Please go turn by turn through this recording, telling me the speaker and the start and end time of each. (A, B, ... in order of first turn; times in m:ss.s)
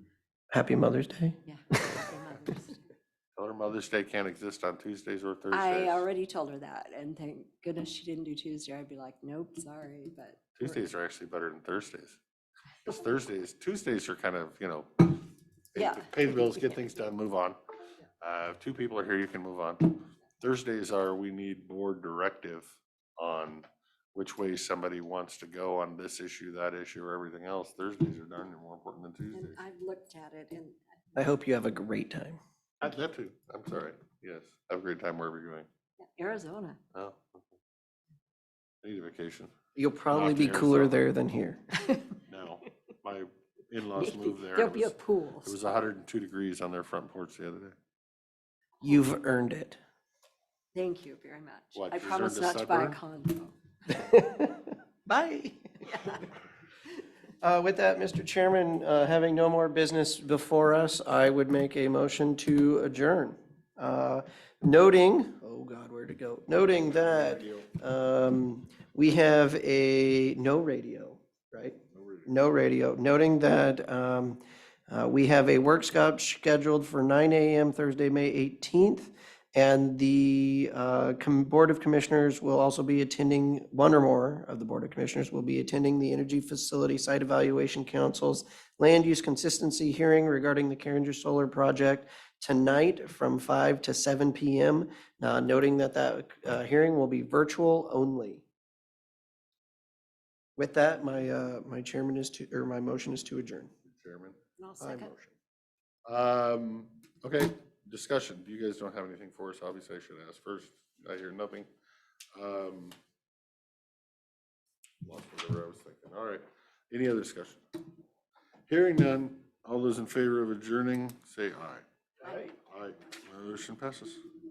0:00.5-0:01.4 A
0:01.4-0:02.8 B
0:03.4-0:06.0 C
0:05.5-0:10.8 B
0:10.6-0:12.2 C
0:12.8-0:17.6 C
0:15.8-0:16.2 B
0:18.2-0:29.6 C
0:29.3-0:30.8 B
0:31.2-0:32.4 A
0:32.8-0:35.7 C
0:36.0-0:36.8 B
0:36.9-0:37.6 C
0:38.8-0:39.5 C
0:39.8-0:41.6 A
0:40.1-0:41.0 C
0:41.8-0:42.2 B
0:42.3-0:47.8 C
0:44.0-0:45.6 B
0:48.8-0:49.8 A
0:50.7-0:53.5 B
0:51.7-0:53.0 C
0:53.9-0:56.2 A
0:55.9-0:56.2 B
0:57.4-1:38.4 A
1:07.0-1:07.7 C
1:11.9-1:12.3 C
1:40.6-1:43.7 A
1:43.8-1:44.4 C
1:44.6-1:45.1 B
1:44.8-1:45.3 A
1:46.1-1:51.7 C
1:52.3-1:53.0 C
1:55.0-1:57.6 C
1:58.7-2:04.2 C
2:02.2-2:02.5 A